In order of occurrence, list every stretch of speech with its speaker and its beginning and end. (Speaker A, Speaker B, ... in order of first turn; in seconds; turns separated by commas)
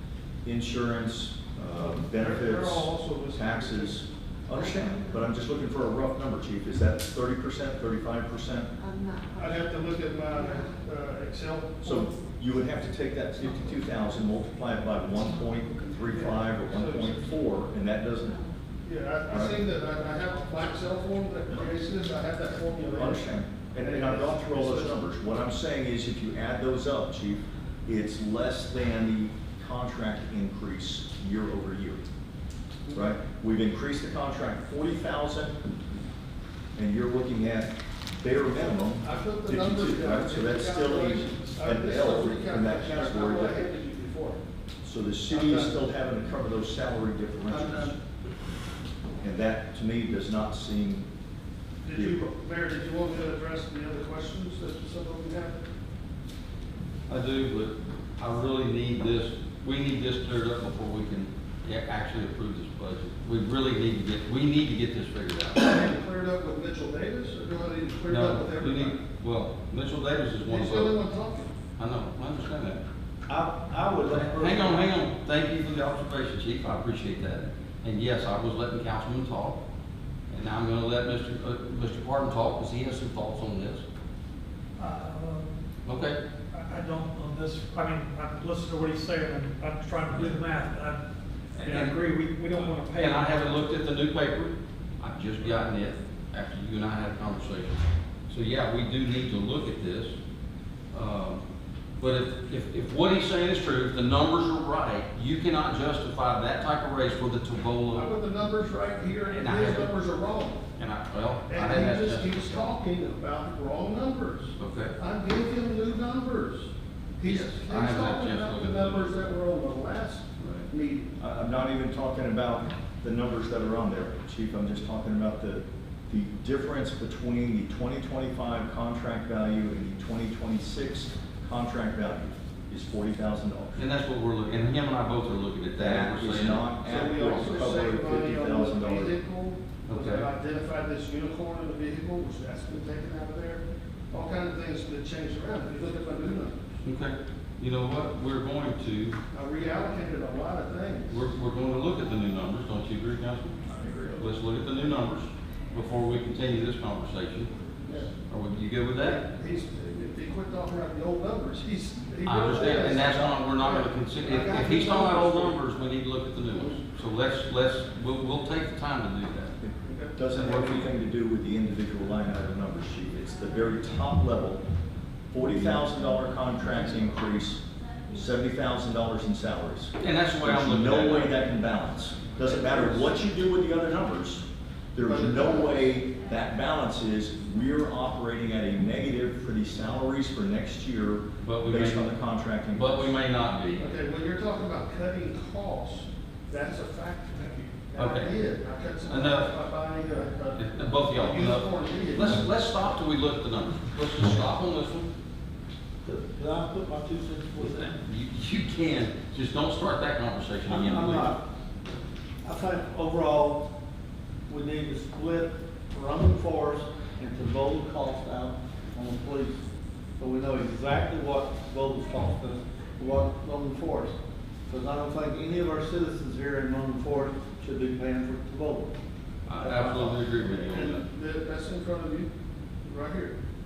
Speaker A: 0.4-8.7, Speaker B: 1.7-4.0, Speaker C: 4.5-5.1, Speaker C: 8.8-10.8, Speaker B: 9.4-12.0, Speaker A: 11.8-18.4, Speaker C: 11.9-12.2, Speaker B: 16.1-17.2, Speaker B: 18.8-23.2, Speaker A: 19.3-19.6, Speaker A: 22.9-32.0, Speaker B: 23.8-25.0, Speaker B: 32.9-33.1, Speaker A: 32.9-35.5, Speaker A: 36.8-43.5, Speaker B: 39.0-44.4, Speaker A: 44.8-48.0, Speaker B: 45.3-45.8, Speaker B: 47.5-47.9, Speaker A: 49.2-51.1, Speaker B: 51.8-55.6, Speaker A: 51.9-52.3, Speaker D: 57.1-65.7, Speaker B: 65.5-69.0, Speaker D: 68.1-71.0, Speaker B: 70.5-71.5, Speaker D: 71.8-72.8, Speaker E: 73.3-74.8, Speaker D: 74.1-79.6, Speaker D: 80.3-83.8, Speaker F: 84.8-85.5, Speaker D: 85.8-86.2, Speaker F: 86.5-91.0, Speaker D: 91.6-100.2, Speaker F: 91.6-93.7, Speaker D: 100.9-101.4, Speaker D: 102.0-108.1, Speaker B: 107.9-110.6, Speaker D: 109.3-109.9, Speaker D: 110.8-112.7, Speaker B: 111.5-121.1, Speaker D: 114.6-114.9, Speaker D: 117.2-119.2, Speaker D: 120.4-120.7, Speaker A: 121.2-133.8, Speaker D: 133.8-136.7, Speaker A: 135.8-139.2, Speaker B: 136.8-146.6, Speaker D: 139.9-140.3, Speaker D: 146.8-149.2, Speaker B: 149.3-151.2, Speaker D: 151.1-153.6, Speaker D: 154.2-157.5, Speaker B: 157.8-158.1, Speaker D: 158.3-159.2, Speaker B: 159.0-165.6, Speaker D: 162.2-169.6, Speaker A: 169.6-174.6, Speaker B: 169.8-170.2, Speaker D: 170.3-170.9, Speaker A: 175.3-193.1, Speaker C: 178.0-178.3, Speaker D: 180.0-181.4, Speaker B: 182.4-183.0, Speaker B: 185.0-185.7, Speaker D: 191.4-192.1, Speaker D: 192.7-193.9, Speaker B: 193.8-202.5, Speaker D: 197.9-198.3, Speaker D: 199.1-199.5, Speaker D: 200.5-205.1, Speaker E: 206.0-208.0, Speaker D: 207.9-211.3, Speaker E: 210.7-211.4, Speaker E: 212.4-213.7, Speaker E: 214.5-219.6, Speaker E: 220.2-224.2, Speaker E: 224.7-228.9, Speaker D: 229.4-231.0, Speaker E: 229.6-230.1, Speaker B: 230.7-232.3, Speaker B: 232.8-233.4